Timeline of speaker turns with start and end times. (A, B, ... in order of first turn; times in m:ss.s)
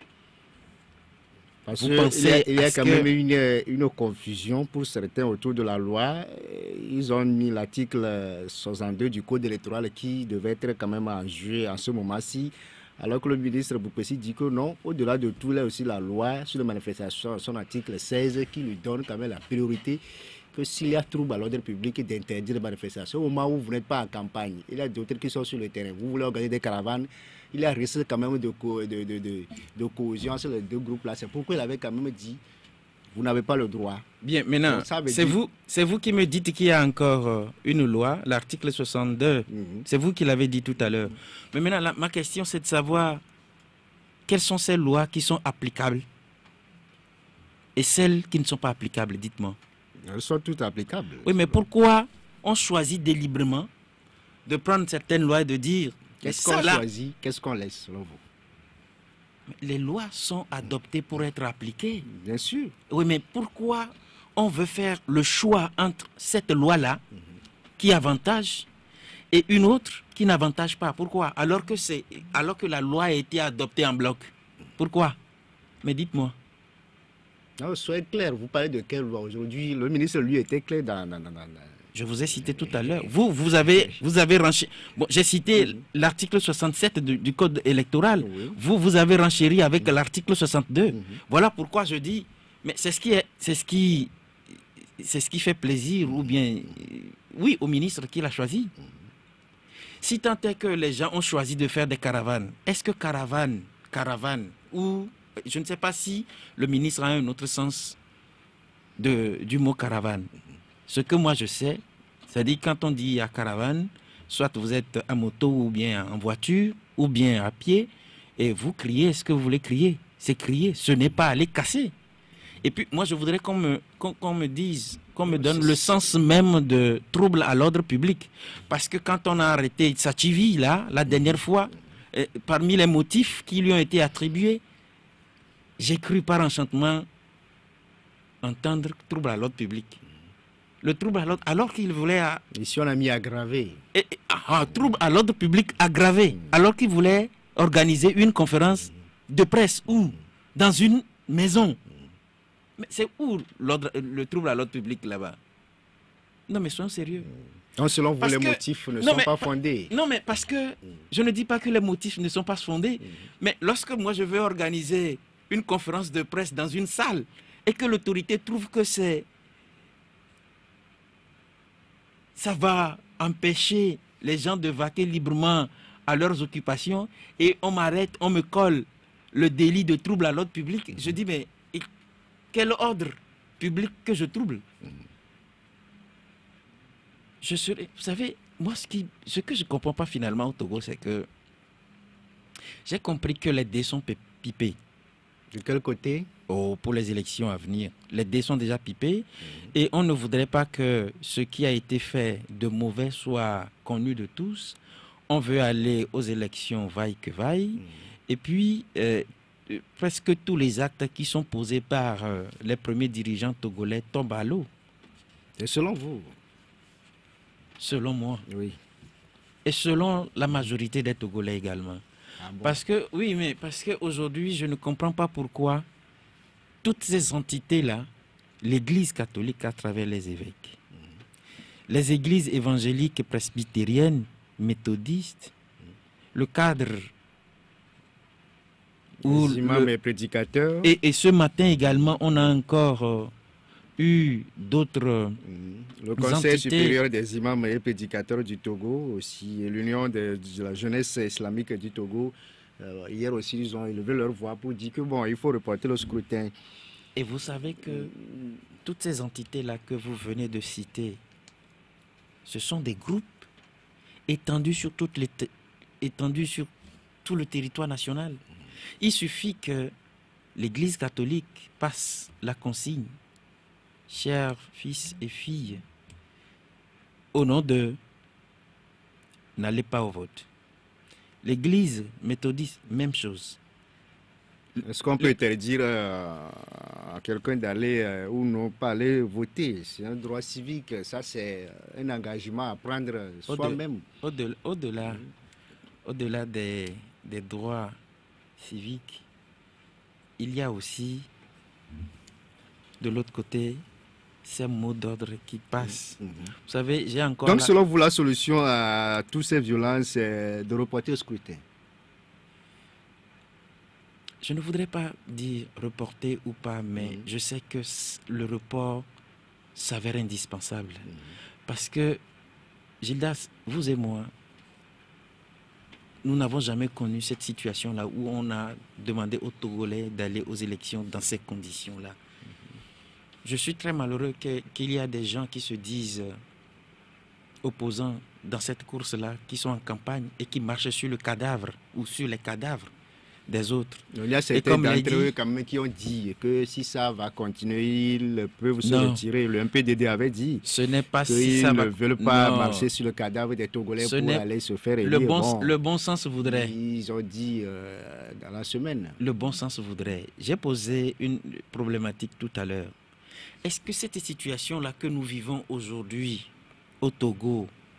0:01.7-0:32.4 A
0:01.8-0:03.1 B
0:33.1-0:34.0 A
0:34.2-0:43.2 B
0:34.7-0:35.4 A
0:39.5-0:39.9 A
0:44.3-0:46.0 B
0:47.8-0:49.6 B
0:50.0-0:51.4 A
0:51.2-0:53.7 B
0:54.5-0:56.8 B
0:56.2-0:58.2 A
0:59.5-1:02.1 B
1:02.1-1:02.7 A
1:02.9-1:07.0 B
1:07.8-1:08.7 B
1:09.3-1:15.2 B
1:15.8-1:16.4 B
1:17.6-1:21.8 A
1:21.9-1:34.1 B
1:28.2-1:28.6 A
1:30.9-1:31.2 A
1:35.0-1:38.7 B
1:40.0-1:48.0 B
1:49.0-1:50.3 B
1:50.9-2:01.9 B
2:02.6-2:14.6 B
2:15.8-2:17.1 B
2:18.4-2:20.0 B
2:20.8-2:22.4 B
2:22.5-2:23.8 A
2:23.9-2:31.8 B
2:32.8-2:35.4 B
2:36.5-2:37.3 B
2:37.8-2:39.9 A
2:38.2-2:49.3 B
2:52.4-3:01.9 B
3:02.5-3:04.6 B
3:07.4-3:11.3 B
3:12.9-3:14.8 B
3:15.5-3:16.3 A
3:16.5-3:24.8 B
3:25.3-3:34.7 B
3:35.6-3:36.4 A
3:37.8-3:38.5 B
3:38.5-3:38.8 A
3:39.6-3:42.0 B
3:42.4-3:42.8 A
3:42.6-3:45.9 B
3:46.8-3:48.1 B
3:48.6-3:50.8 B
3:51.9-3:55.5 B
3:56.3-3:57.1 B
3:59.2-3:59.9 B
3:59.2-4:00.9 A
4:00.8-4:03.3 B
4:04.0-4:05.4 B
4:05.4-4:16.5 A
4:06.2-4:07.0 B
4:17.2-4:18.1 B
4:18.8-4:21.2 B
4:22.5-4:23.5 B
4:24.3-4:26.7 B
4:27.2-4:28.4 B
4:29.0-4:29.9 B
4:30.6-4:33.2 B
4:34.1-4:35.8 B
4:37.3-4:38.0 B
4:39.6-4:40.5 B
4:41.4-4:43.6 B
4:44.8-4:54.0 A
4:53.5-4:55.2 B
4:56.0-4:58.0 B
4:58.6-4:59.2 B
5:00.4-5:01.3 B
5:03.0-5:03.8 B
5:04.4-5:07.7 B
5:06.2-5:06.5 A
5:07.4-5:11.6 A
5:14.4-5:19.1 B
5:19.8-5:21.1 B
5:21.7-5:22.2 B
5:23.0-5:24.3 B
5:26.2-5:32.2 B
5:33.4-5:36.4 B
5:37.6-5:42.9 B
5:43.5-5:45.4 B
5:44.1-5:50.6 A
5:48.8-5:49.2 B
5:50.6-5:52.9 B
5:51.3-5:55.7 A
5:54.0-5:54.4 B
5:55.0-5:56.7 B
5:56.4-5:59.2 A
5:59.2-6:02.9 B
6:03.6-6:07.7 B